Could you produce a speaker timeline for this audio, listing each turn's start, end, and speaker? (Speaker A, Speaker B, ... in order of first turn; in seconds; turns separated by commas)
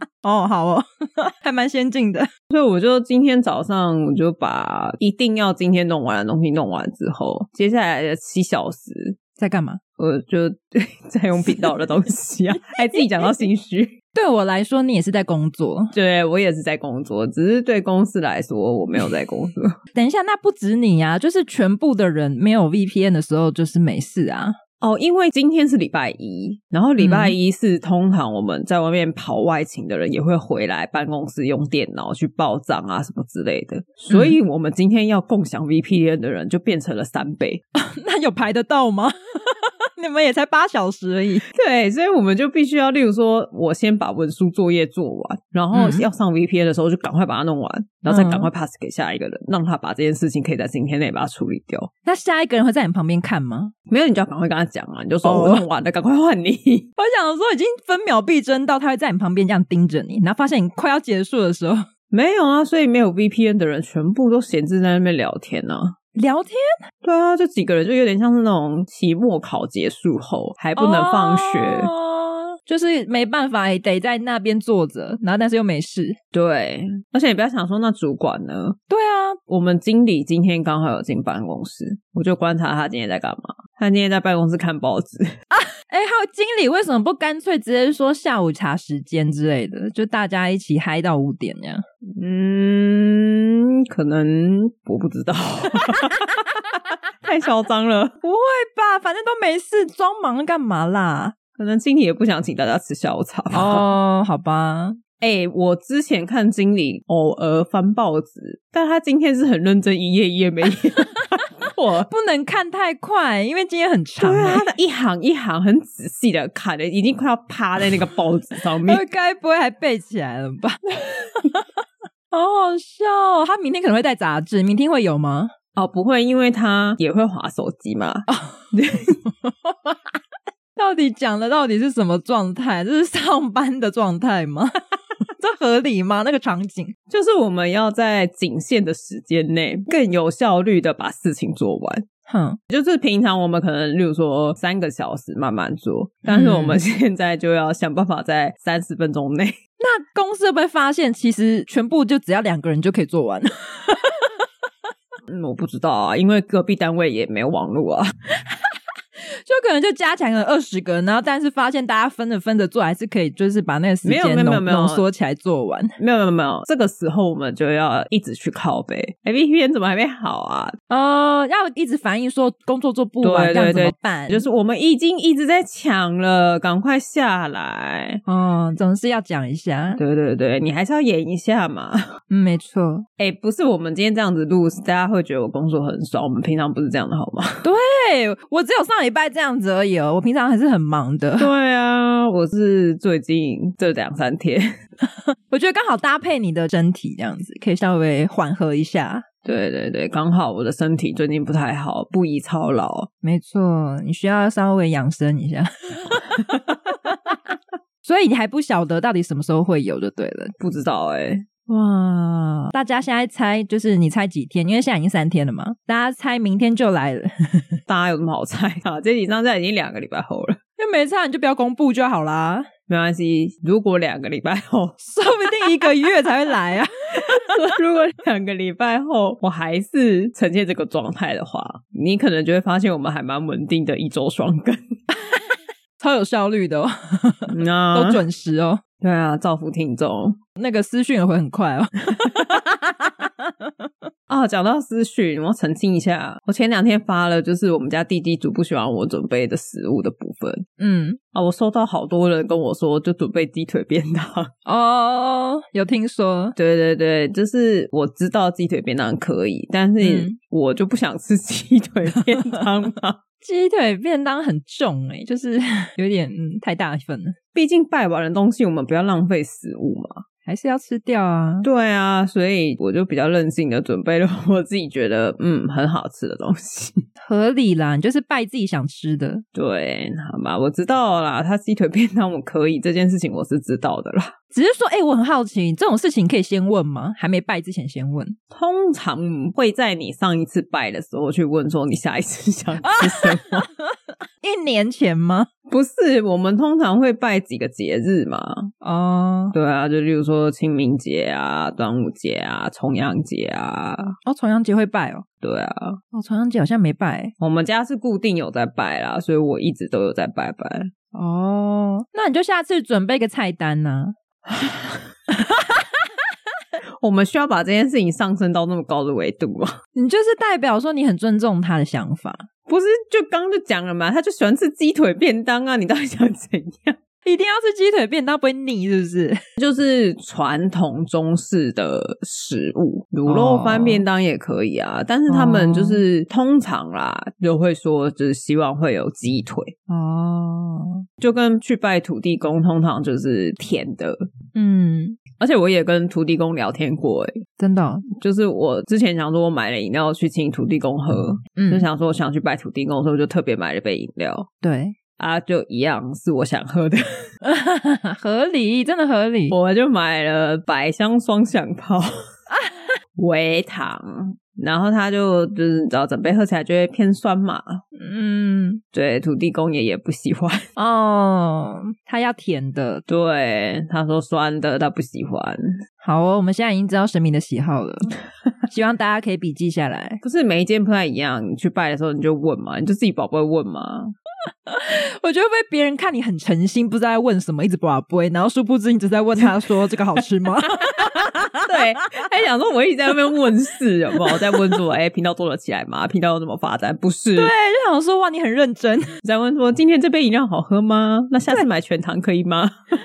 Speaker A: 0.2-2.3, Speaker B: 2.5-9.2, Speaker A: 9.4-9.8, Speaker B: 10.0-14.0, Speaker A: 14.1-15.9, Speaker B: 15.9-19.8, Speaker A: 19.9-24.6, Speaker B: 24.8-37.6, Speaker A: 27.0-27.4, Speaker A: 34.1-34.4, Speaker A: 37.8-41.4, Speaker B: 41.5-51.9, Speaker A: 45.7-46.1, Speaker A: 48.1-48.5, Speaker A: 52.0-53.7, Speaker B: 53.9-56.9, Speaker A: 55.2-55.7, Speaker A: 57.0-61.8, Speaker B: 62.1-65.9, Speaker A: 66.2-66.6, Speaker B: 67.0-71.9, Speaker A: 70.8-76.2, Speaker B: 76.3-78.8, Speaker A: 78.9-79.4, Speaker B: 79.5-85.3, Speaker A: 85.5-91.8, Speaker B: 92.2-96.3, Speaker B: 97.2-98.2, Speaker A: 98.2-101.3, Speaker B: 101.6-103.8, Speaker A: 103.5-105.0, Speaker B: 105.2-112.1, Speaker A: 112.1-114.7, Speaker B: 114.2-119.0, Speaker A: 118.8-120.9, Speaker A: 121.4-121.6, Speaker A: 122.3-125.5, Speaker B: 125.8-129.2, Speaker A: 128.3-128.6, Speaker A: 129.4-129.9, Speaker A: 130.8-136.9, Speaker B: 137.1-142.1, Speaker A: 142.3-142.6, Speaker B: 142.7-149.6, Speaker A: 146.3-146.8, Speaker A: 149.8-154.4, Speaker B: 155.3-158.1, Speaker A: 159.4-165.9, Speaker B: 164.0-165.1, Speaker B: 166.0-170.8, Speaker A: 170.9-174.5, Speaker B: 173.2-178.2, Speaker A: 178.3-180.0, Speaker B: 180.0-182.1, Speaker A: 182.3-183.1, Speaker B: 183.2-187.6, Speaker A: 187.6-191.5, Speaker B: 191.4-194.7, Speaker A: 195.3-199.2, Speaker B: 199.4-203.1, Speaker A: 203.2-206.6, Speaker A: 208.0-210.5, Speaker B: 210.6-211.4, Speaker A: 211.7-217.8, Speaker B: 217.9-220.6, Speaker A: 220.8-222.7, Speaker B: 222.9-225.0, Speaker A: 225.0-227.5, Speaker B: 227.3-235.0, Speaker A: 235.3-238.8, Speaker B: 237.5-238.2, Speaker B: 239.0-240.4, Speaker A: 240.6-243.9, Speaker B: 244.3-250.6, Speaker A: 250.8-251.2, Speaker B: 251.3-254.5, Speaker A: 254.7-256.6, Speaker B: 256.6-263.2, Speaker A: 260.0-260.4, Speaker A: 263.4-267.4, Speaker B: 267.6-270.2, Speaker A: 270.5-271.7, Speaker B: 271.6-277.0, Speaker A: 277.2-279.4, Speaker B: 279.6-284.3, Speaker A: 284.5-288.4, Speaker B: 288.5-293.7, Speaker A: 292.9-295.5, Speaker B: 295.7-298.7, Speaker A: 298.8-299.6, Speaker B: 299.5-304.2, Speaker A: 304.2-305.2, Speaker B: 305.4-306.0, Speaker A: 306.1-307.3, Speaker B: 307.4-310.9, Speaker A: 311.1-314.1, Speaker B: 314.5-315.0, Speaker A: 315.4-315.8, Speaker B: 317.0-319.8, Speaker A: 319.9-322.5, Speaker B: 322.7-327.0, Speaker A: 327.2-329.4, Speaker B: 329.6-339.7, Speaker A: 333.3-334.1, Speaker A: 335.3-336.0, Speaker A: 339.9-341.0, Speaker B: 341.2-344.2, Speaker A: 344.6-345.2, Speaker B: 345.4-347.4, Speaker A: 347.6-348.1, Speaker B: 348.2-354.5, Speaker A: 351.6-351.9, Speaker A: 354.6-355.0, Speaker B: 355.2-357.0, Speaker A: 357.4-359.6, Speaker B: 359.5-362.1, Speaker B: 363.2-367.8, Speaker A: 368.0-368.8, Speaker B: 368.9-370.7, Speaker A: 370.8-373.1, Speaker B: 373.1-375.7, Speaker A: 376.0-380.2, Speaker B: 380.2-384.1, Speaker A: 384.7-391.0, Speaker B: 390.8-397.5, Speaker A: 397.4-399.2, Speaker B: 399.2-402.8